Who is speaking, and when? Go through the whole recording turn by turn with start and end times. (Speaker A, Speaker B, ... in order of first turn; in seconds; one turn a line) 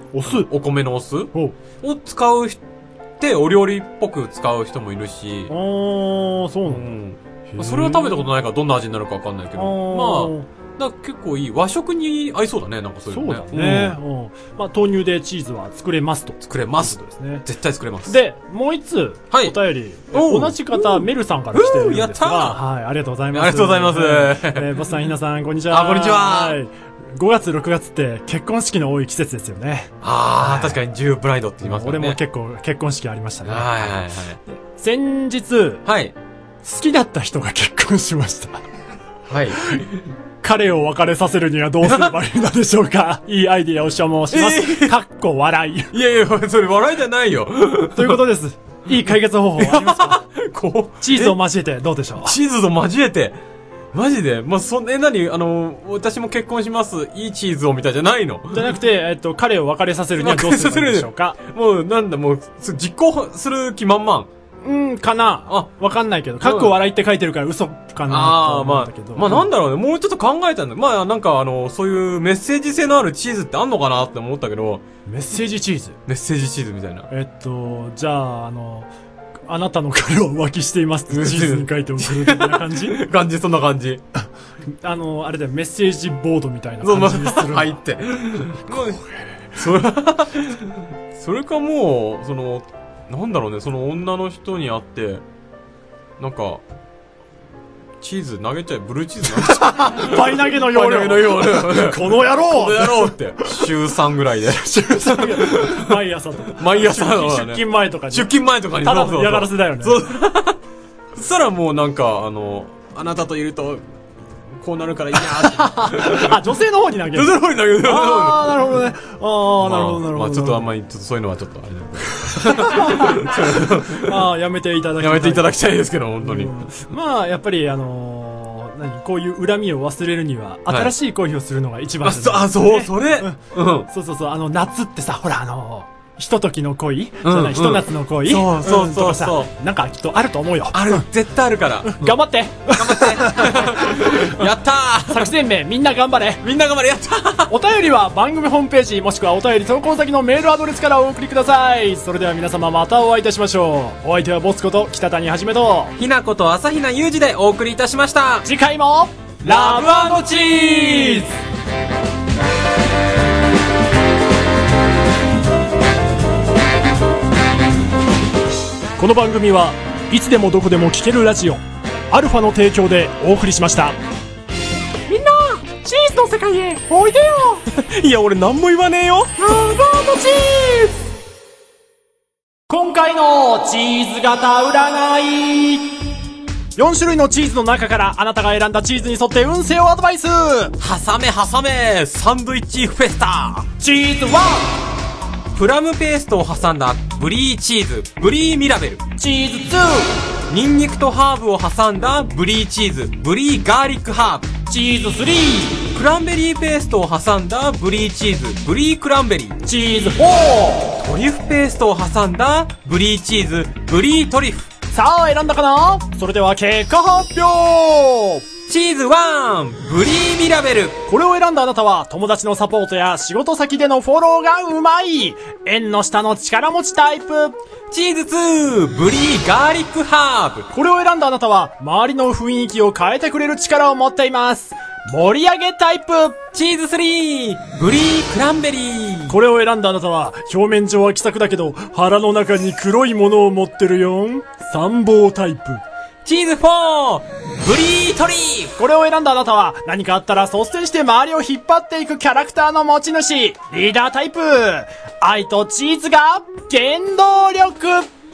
Speaker A: 0.1-0.5
Speaker B: 0.2-2.6
Speaker B: 3.2-5.5
Speaker A: 5.5-6.9
Speaker B: 6.7-14.0
Speaker A: 7.5-8.3
Speaker A: 9.6-10.4
Speaker A: 13.1-17.4
Speaker B: 16.4-18.2
Speaker A: 18.1-30.8
Speaker B: 19.3-19.6
Speaker B: 20.1-22.6
Speaker B: 23.3-24.8
Speaker B: 25.7-26.6
Speaker B: 30.0-32.2
Speaker A: 31.6-33.9
Speaker B: 33.4-34.4
Speaker A: 34.5-35.8
Speaker B: 35.9-36.1
Speaker A: 36.6-38.6
Speaker B: 39.3-40.0
Speaker A: 40.4-45.9
Speaker B: 41.8-42.1
Speaker B: 44.3-45.0
Speaker B: 45.9-48.2
Speaker A: 47.9-50.2
Speaker B: 49.6-51.4
Speaker A: 51.0-52.3
Speaker B: 52.2-53.4
Speaker B: 53.9-58.8
Speaker A: 58.5-61.4
Speaker B: 60.2-64.3
Speaker A: 64.6-69.5
Speaker B: 66.4-66.7
Speaker B: 68.1-74.8
Speaker A: 75.1-76.0
Speaker B: 76.0-77.1
Speaker A: 77.1-78.9
Speaker A: 79.5-83.0
Speaker B: 81.1-84.0
Speaker A: 84.8-87.8
Speaker B: 86.8-89.0
Speaker A: 88.7-89.0
Speaker B: 89.5-95.2
Speaker B: 96.2-96.6
Speaker B: 98.0-106.0
Speaker A: 99.4-103.5
Speaker A: 104.5-108.3
Speaker B: 106.5-110.6
Speaker A: 108.8-110.0
Speaker B: 111.1-113.8
Speaker B: 114.6-116.5
Speaker A: 115.3-120.7
Speaker B: 117.1-118.7
Speaker B: 119.6-124.3
Speaker A: 122.3-125.6
Speaker B: 125.0-126.7
Speaker A: 126.2-133.4
Speaker B: 130.7-130.9
Speaker B: 132.0-133.9
Speaker A: 133.9-141.0
Speaker B: 137.2-139.5
Speaker B: 140.7-145.3
Speaker A: 141.9-144.4
Speaker A: 145.1-146.4
Speaker B: 146.4-147.5
Speaker A: 147.5-155.9
Speaker B: 156.0-158.5
Speaker A: 158.4-161.3
Speaker B: 159.4-161.3
Speaker A: 169.0-174.0
Speaker A: 175.1-177.6
Speaker B: 177.6-179.6
Speaker A: 179.4-180.9
Speaker A: 182.7-186.0
Speaker A: 186.8-190.7
Speaker B: 190.8-193.7
Speaker A: 193.8-194.8
Speaker B: 195.5-199.0
Speaker A: 199.2-200.1
Speaker B: 200.5-204.5
Speaker A: 204.7-205.9
Speaker B: 205.9-209.6
Speaker A: 209.6-211.0
Speaker B: 211.0-214.7
Speaker A: 214.9-218.4
Speaker B: 218.7-221.0
Speaker A: 221.1-227.6
Speaker B: 227.9-230.7
Speaker A: 230.7-236.4
Speaker B: 236.5-239.4
Speaker A: 239.3-245.8
Speaker B: 246.2-248.7
Speaker A: 248.8-258.1